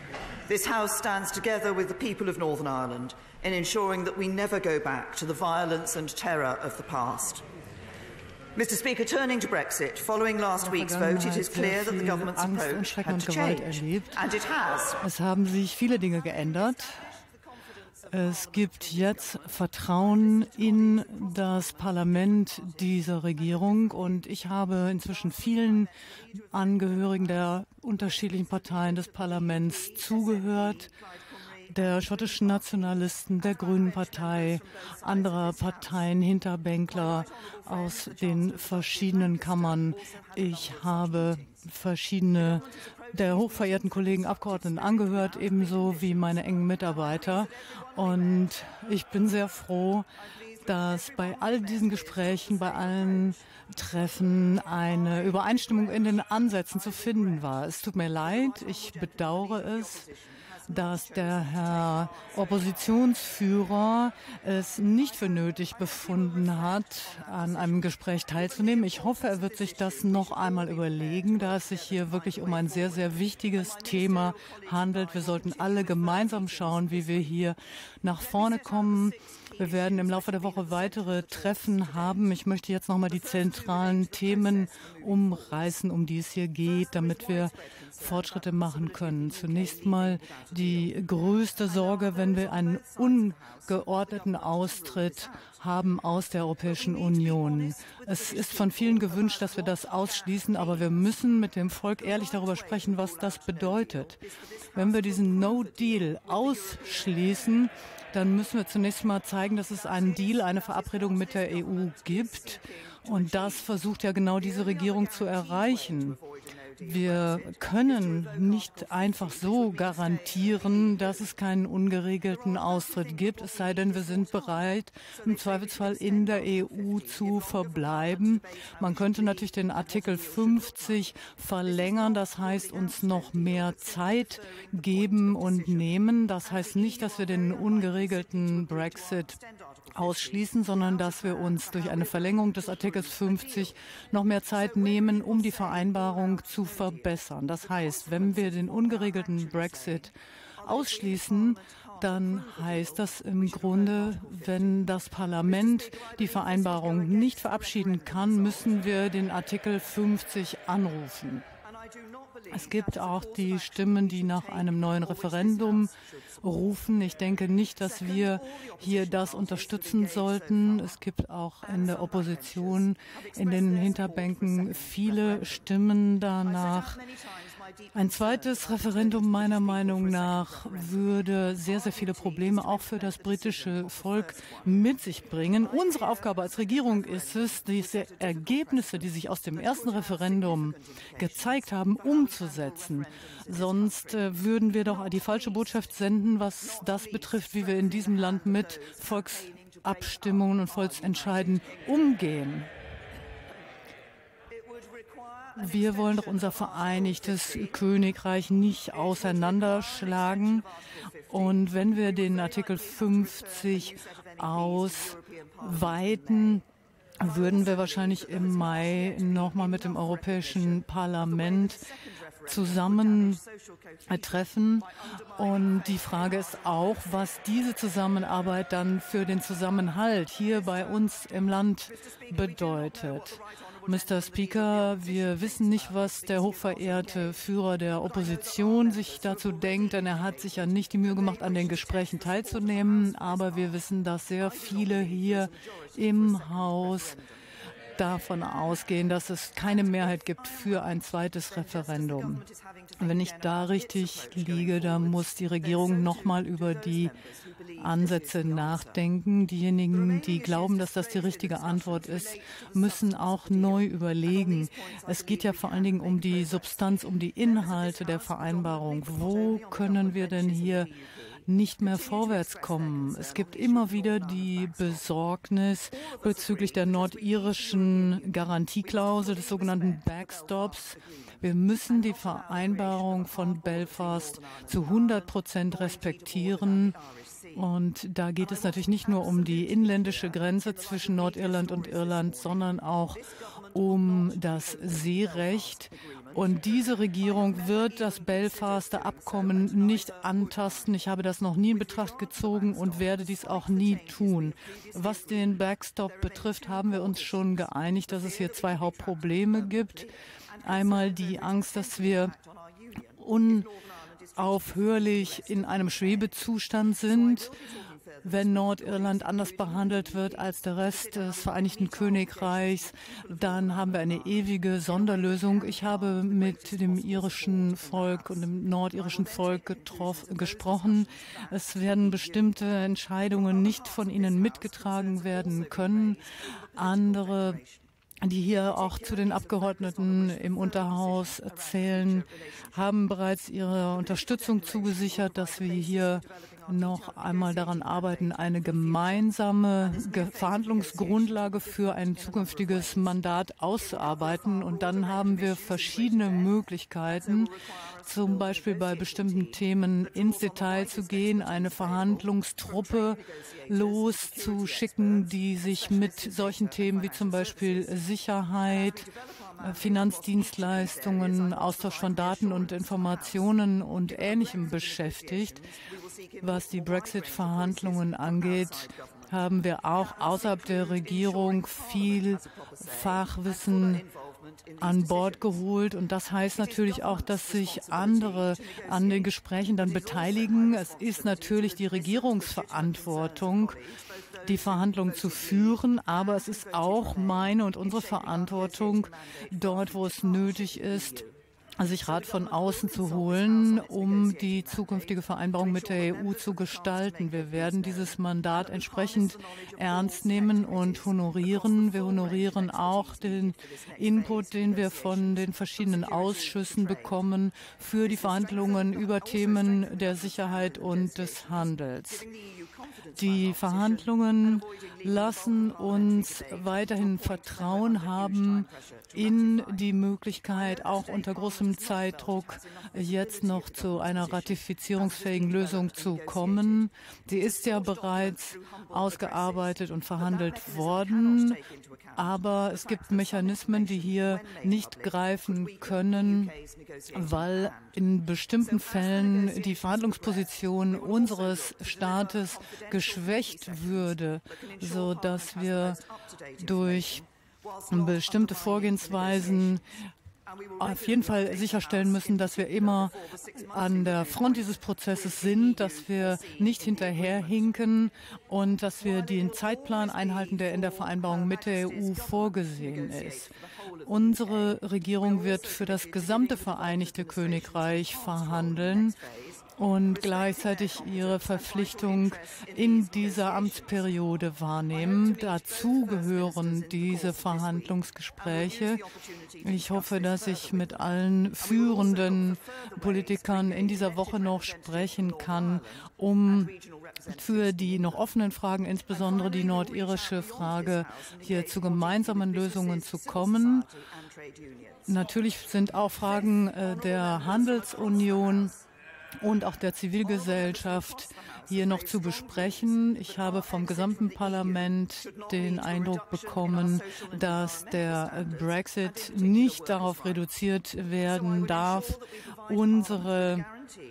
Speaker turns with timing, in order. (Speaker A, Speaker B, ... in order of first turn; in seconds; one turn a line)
Speaker A: 0.5-7.4
Speaker A: 8.5-15.0
Speaker B: 10.6-14.2
Speaker B: 15.0-17.0
Speaker B: 18.1-25.9
Speaker B: 26.5-30.9
Speaker B: 31.7-50.1
Speaker A: 33.8-34.2
Speaker A: 35.4-35.7
Speaker A: 38.0-41.1
Speaker A: 44.5-46.0
Speaker B: 50.6-60.1
Speaker A: 51.5-53.2
Speaker A: 58.4-60.1
Speaker B: 60.7-104.2
Speaker A: 60.8-61.6
Speaker A: 68.8-73.1
Speaker A: 73.8-76.8
Speaker A: 79.6-80.8
Speaker A: 83.7-84.3
Speaker A: 86.9-87.2
Speaker A: 88.4-90.3
Speaker A: 91.8-92.6
Speaker A: 94.2-95.1
Speaker A: 97.0-99.7
Speaker A: 100.3-100.8
Speaker A: 102.4-103.9
Speaker B: 104.7-116.2
Speaker A: 104.8-105.2
Speaker A: 110.8-111.7
Speaker A: 113.2-113.6
Speaker A: 114.5-116.1
Speaker B: 116.8-139.4
Speaker A: 118.1-120.9
Speaker A: 123.2-124.3
Speaker A: 125.2-130.7
Speaker A: 131.9-133.8
Speaker A: 135.2-135.8
Speaker A: 136.6-139.4
Speaker B: 139.9-161.4
Speaker A: 140.9-142.1
Speaker A: 142.8-143.6
Speaker A: 145.0-145.9
Speaker A: 148.2-149.9
Speaker A: 150.8-151.5
Speaker A: 152.0-152.8
Speaker A: 153.5-154.7
Speaker A: 156.0-158.7
Speaker B: 162.5-165.9
Speaker A: 163.5-165.7
Speaker B: 166.4-177.0
Speaker A: 168.1-170.8
Speaker A: 171.9-172.8
Speaker A: 173.3-175.4
Speaker A: 176.5-177.0
Speaker B: 177.9-202.7
Speaker A: 178.3-181.0
Speaker A: 182.0-184.6
Speaker A: 185.8-188.9
Speaker A: 189.6-191.3
Speaker A: 192.0-193.0
Speaker A: 193.8-194.1
Speaker A: 197.7-198.9
Speaker A: 200.2-201.9
Speaker A: 204.9-207.7
Speaker B: 205.6-210.7
Speaker A: 209.0-210.7
Speaker B: 211.3-216.6
Speaker A: 211.3-211.6
Speaker A: 212.2-213.8
Speaker A: 214.4-216.4
Speaker B: 217.2-221.8
Speaker A: 217.6-220.8
Speaker A: 221.3-221.8
Speaker A: 222.4-223.4
Speaker B: 222.4-223.4
Speaker B: 224.1-247.2
Speaker A: 225.4-226.0
Speaker A: 232.3-233.2
Speaker A: 233.8-237.2
Speaker A: 238.2-240.5
Speaker A: 241.2-243.7
Speaker A: 244.6-245.5
Speaker A: 246.3-247.2
Speaker B: 248.0-252.4
Speaker A: 251.6-257.1
Speaker B: 253.0-257.1
Speaker A: 257.7-258.9
Speaker B: 257.8-270.9
Speaker A: 260.0-263.0
Speaker A: 264.6-266.6
Speaker A: 267.7-270.9
Speaker B: 271.5-286.9
Speaker A: 271.9-274.9
Speaker A: 276.3-278.4
Speaker A: 278.9-280.7
Speaker A: 282.0-287.0
Speaker B: 287.5-293.2
Speaker A: 288.6-292.4
Speaker B: 293.7-310.1
Speaker A: 294.1-295.7
Speaker A: 297.4-300.7
Speaker A: 302.3-305.4
Speaker A: 306.2-307.4
Speaker A: 308.4-308.9
Speaker B: 310.6-312.3
Speaker A: 310.7-312.2
Speaker B: 313.2-313.7
Speaker B: 314.4-317.5
Speaker B: 318.2-336.2
Speaker A: 318.9-322.7
Speaker A: 325.7-328.1
Speaker A: 329.1-330.7
Speaker A: 333.7-336.1
Speaker B: 336.7-337.6
Speaker A: 336.8-337.6
Speaker B: 338.2-357.5
Speaker A: 339.0-342.1
Speaker A: 344.3-346.1
Speaker A: 346.7-348.4
Speaker A: 349.9-352.8
Speaker A: 354.0-356.5
Speaker A: 357.2-357.5
Speaker B: 358.0-375.6
Speaker A: 358.2-359.6
Speaker A: 360.2-362.2
Speaker A: 362.9-365.2
Speaker A: 365.9-367.7
Speaker A: 369.4-373.3
Speaker A: 374.1-379.0
Speaker B: 376.4-384.0
Speaker A: 380.1-385.4
Speaker B: 384.8-393.8
Speaker A: 386.7-389.2
Speaker A: 389.8-393.8
Speaker B: 394.4-401.2
Speaker A: 394.5-395.6
Speaker A: 396.3-399.1
Speaker A: 399.7-400.5
Speaker B: 401.8-422.3
Speaker A: 402.3-408.1
Speaker A: 408.7-409.2
Speaker A: 409.8-417.1
Speaker A: 418.2-421.6
Speaker A: 423.1-424.1
Speaker B: 423.1-441.6
Speaker A: 424.6-429.8
Speaker A: 430.5-436.7
Speaker A: 437.5-439.6
Speaker A: 440.2-442.2
Speaker B: 442.1-446.5
Speaker A: 442.8-447.3
Speaker B: 447.1-456.0
Speaker A: 448.7-450.4
Speaker A: 451.0-453.9
Speaker A: 454.8-455.9
Speaker A: 456.6-457.0
Speaker B: 456.6-457.2
Speaker A: 457.8-459.6
Speaker B: 457.9-459.8
Speaker A: 460.8-467.6
Speaker B: 460.8-473.5
Speaker A: 469.2-473.3
Speaker A: 474.0-474.7
Speaker B: 474.1-479.2
Speaker A: 475.3-479.2
Speaker B: 479.8-489.0
Speaker A: 480.1-484.1
Speaker A: 485.1-489.0
Speaker A: 489.6-490.9
Speaker B: 489.6-496.7
Speaker A: 491.6-495.8
Speaker A: 496.6-498.1
Speaker B: 497.3-503.9
Speaker A: 499.1-505.0
Speaker B: 505.1-508.7
Speaker A: 506.5-508.5
Speaker B: 509.4-523.6
Speaker A: 510.4-511.2
Speaker A: 511.7-512.7
Speaker A: 513.3-514.8
Speaker A: 515.4-520.3
Speaker A: 521.3-523.7